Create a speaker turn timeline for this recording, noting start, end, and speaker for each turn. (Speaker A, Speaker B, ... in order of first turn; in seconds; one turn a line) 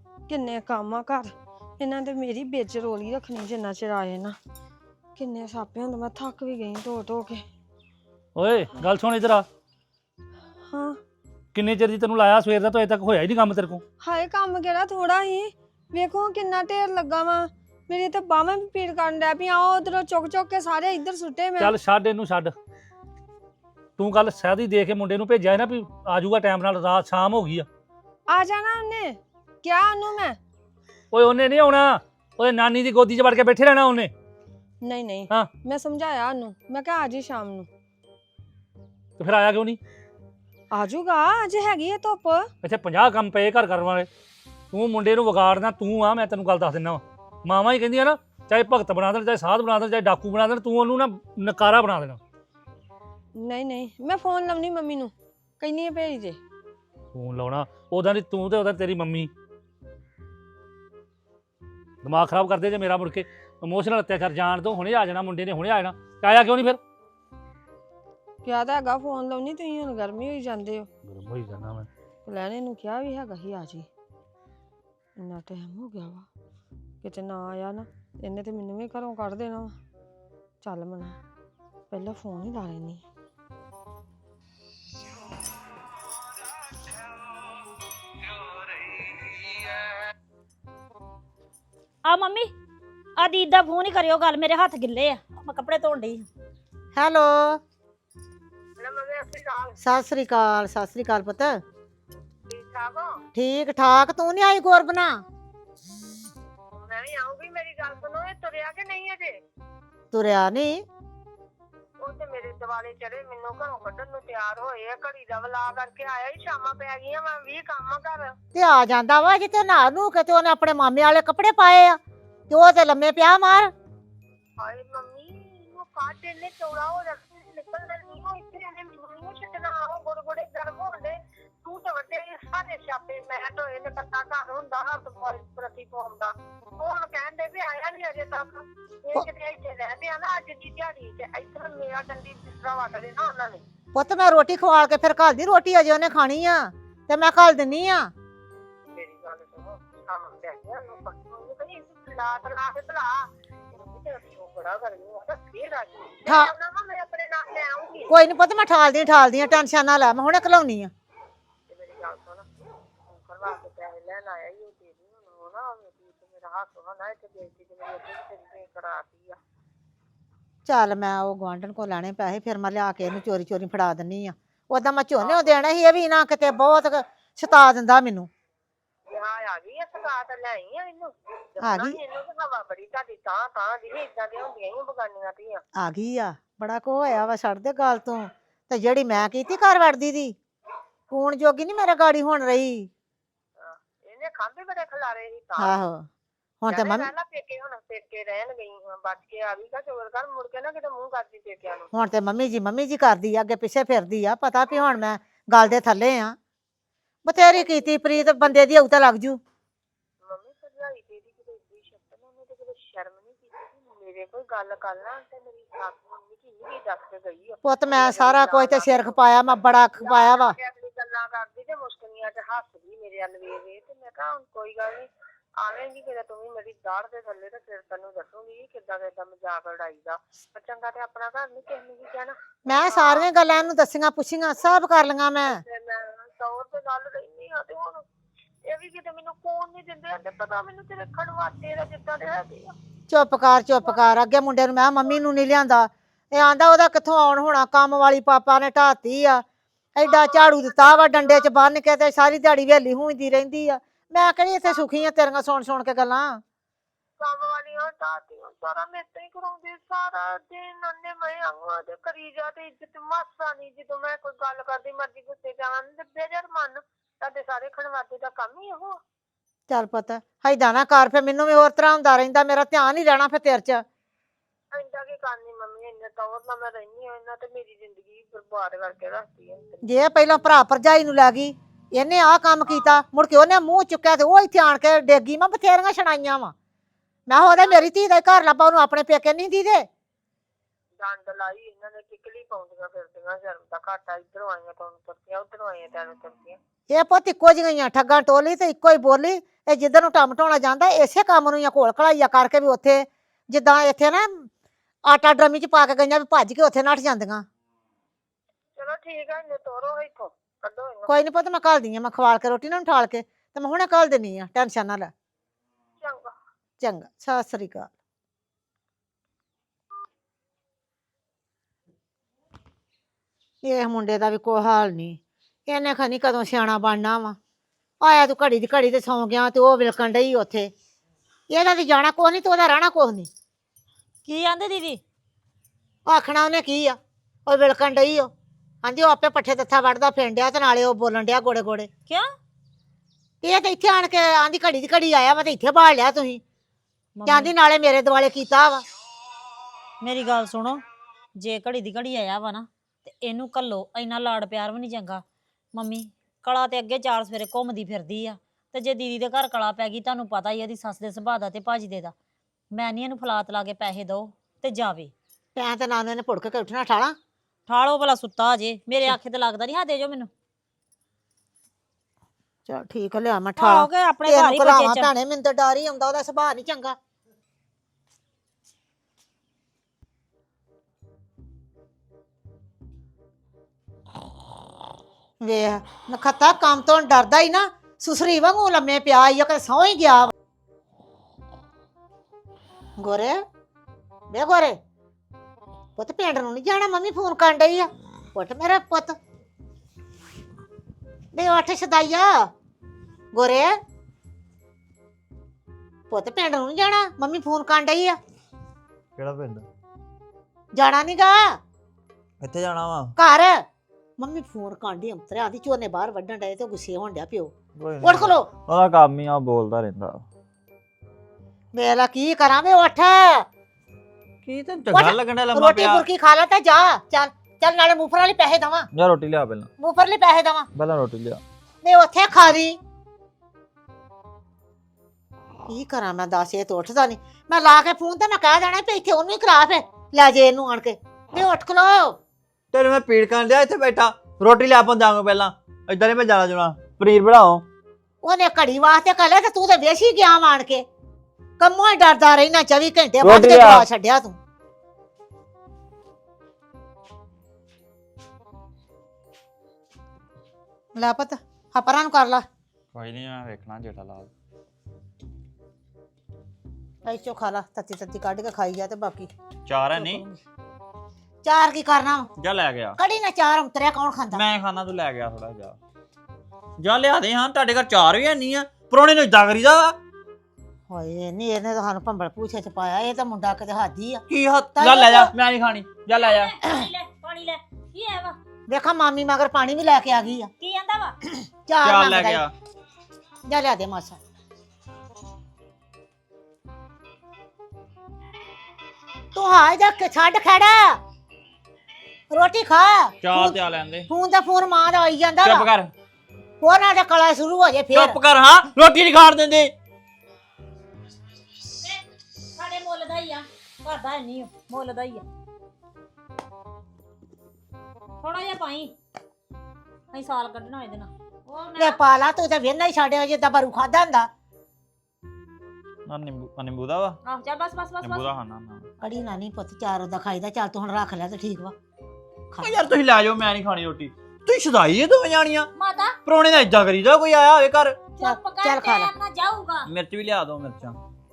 Speaker A: 0.3-4.4
Speaker A: 5.2-7.5
Speaker B: 8.4-9.5
Speaker A: 10.7-11.0
Speaker B: 11.5-13.8
Speaker A: 14.0-21.8
Speaker B: 21.6-22.6
Speaker B: 24.0-27.7
Speaker A: 28.3-30.4
Speaker B: 31.1-34.1
Speaker A: 34.8-37.7
Speaker B: 39.2-39.8
Speaker A: 40.7-42.5
Speaker B: 42.6-44.1
Speaker B: 44.7-52.2
Speaker A: 53.4-56.4
Speaker B: 57.1-59.3
Speaker B: 62.0-66.8
Speaker A: 68.5-70.9
Speaker B: 71.1-71.9
Speaker A: 72.3-73.9
Speaker A: 75.2-76.3
Speaker A: 77.0-79.8
Speaker A: 80.6-81.2
Speaker A: 81.9-83.0
Speaker C: 92.0-92.5
Speaker C: 93.2-96.2
Speaker D: 97.0-97.6
Speaker E: 98.8-99.8
Speaker D: 99.8-101.6
Speaker E: 102.5-103.1
Speaker D: 103.3-105.2
Speaker E: 106.7-109.4
Speaker D: 110.1-110.8
Speaker E: 112.0-118.3
Speaker D: 118.5-122.0
Speaker D: 122.5-123.7
Speaker E: 124.6-143.6
Speaker D: 143.9-148.1
Speaker E: 148.9-158.1
Speaker D: 156.3-156.5
Speaker D: 158.1-160.9
Speaker E: 161.7-169.4
Speaker D: 170.7-178.3
Speaker E: 175.2-175.6
Speaker E: 179.1-185.6
Speaker D: 181.6-182.0
Speaker D: 185.8-190.4
Speaker D: 191.1-192.9
Speaker E: 193.6-195.8
Speaker D: 195.6-196.1
Speaker D: 196.6-197.1
Speaker E: 196.7-201.9
Speaker D: 201.9-206.4
Speaker D: 207.2-209.4
Speaker E: 207.5-208.6
Speaker E: 210.2-233.6
Speaker D: 217.6-220.6
Speaker D: 232.7-235.6
Speaker E: 235.5-238.0
Speaker E: 238.7-242.7
Speaker D: 243.1-249.4
Speaker E: 243.8-244.1
Speaker D: 249.9-256.4
Speaker E: 250.0-251.5
Speaker E: 254.6-255.0
Speaker E: 257.2-269.0
Speaker D: 269.7-273.8
Speaker E: 274.7-279.8
Speaker D: 279.8-286.5
Speaker E: 282.7-283.0
Speaker D: 287.3-289.9
Speaker E: 287.4-287.9
Speaker E: 291.0-296.6
Speaker D: 296.9-304.5
Speaker D: 305.1-307.4
Speaker E: 308.8-311.2
Speaker D: 311.1-315.1
Speaker E: 316.0-316.4
Speaker D: 316.8-317.9
Speaker D: 323.6-327.4
Speaker D: 328.0-330.7
Speaker D: 331.5-333.3
Speaker C: 334.2-335.0
Speaker D: 336.1-338.3
Speaker D: 338.8-341.9
Speaker D: 343.4-346.4
Speaker C: 347.2-347.5
Speaker D: 347.3-348.8
Speaker C: 350.0-350.8
Speaker C: 351.4-355.2
Speaker C: 355.7-362.1
Speaker C: 362.7-365.1
Speaker D: 365.6-367.1
Speaker C: 367.7-370.3
Speaker D: 372.7-377.0
Speaker C: 373.6-375.1
Speaker D: 385.4-390.3
Speaker D: 393.0-393.4
Speaker D: 394.3-394.8
Speaker D: 396.0-399.2
Speaker D: 401.3-402.3
Speaker D: 403.3-403.7
Speaker D: 406.1-408.2
Speaker F: 409.2-409.6
Speaker D: 410.7-411.6
Speaker F: 412.4-413.1
Speaker D: 413.2-413.6
Speaker D: 414.2-418.5
Speaker F: 417.8-420.2
Speaker D: 421.8-423.4
Speaker F: 424.4-426.1
Speaker D: 424.9-428.9
Speaker F: 428.9-429.7
Speaker D: 429.8-430.7
Speaker F: 430.7-431.4
Speaker D: 431.8-432.8
Speaker D: 435.7-442.2
Speaker F: 442.7-447.6
Speaker D: 448.2-450.9
Speaker D: 451.6-454.4
Speaker F: 453.2-453.9
Speaker D: 461.0-462.4
Speaker F: 462.9-464.3
Speaker D: 467.0-469.3
Speaker F: 469.7-470.2
Speaker D: 469.9-470.4
Speaker D: 471.4-472.3
Speaker F: 472.4-473.0
Speaker D: 473.0-474.4
Speaker F: 474.3-475.8
Speaker F: 476.8-479.9
Speaker D: 480.9-484.2
Speaker F: 484.3-486.6
Speaker D: 484.8-485.3
Speaker C: 486.1-488.4
Speaker D: 488.7-490.5
Speaker C: 490.6-491.1
Speaker D: 491.7-492.4
Speaker F: 491.8-492.5
Speaker D: 493.5-494.2
Speaker D: 499.4-501.0
Speaker D: 502.3-505.7
Speaker F: 503.2-504.1
Speaker F: 505.4-505.9
Speaker D: 506.6-508.2
Speaker F: 507.9-509.7
Speaker C: 512.5-515.2
Speaker C: 518.2-518.9
Speaker C: 520.1-522.0
Speaker D: 521.8-524.3
Speaker F: 526.1-527.2
Speaker C: 527.2-528.4
Speaker F: 528.0-528.9
Speaker D: 529.0-531.8
Speaker F: 532.6-535.7
Speaker C: 535.8-536.2
Speaker F: 536.3-538.0
Speaker C: 538.2-539.9
Speaker D: 538.2-539.1
Speaker F: 539.9-541.0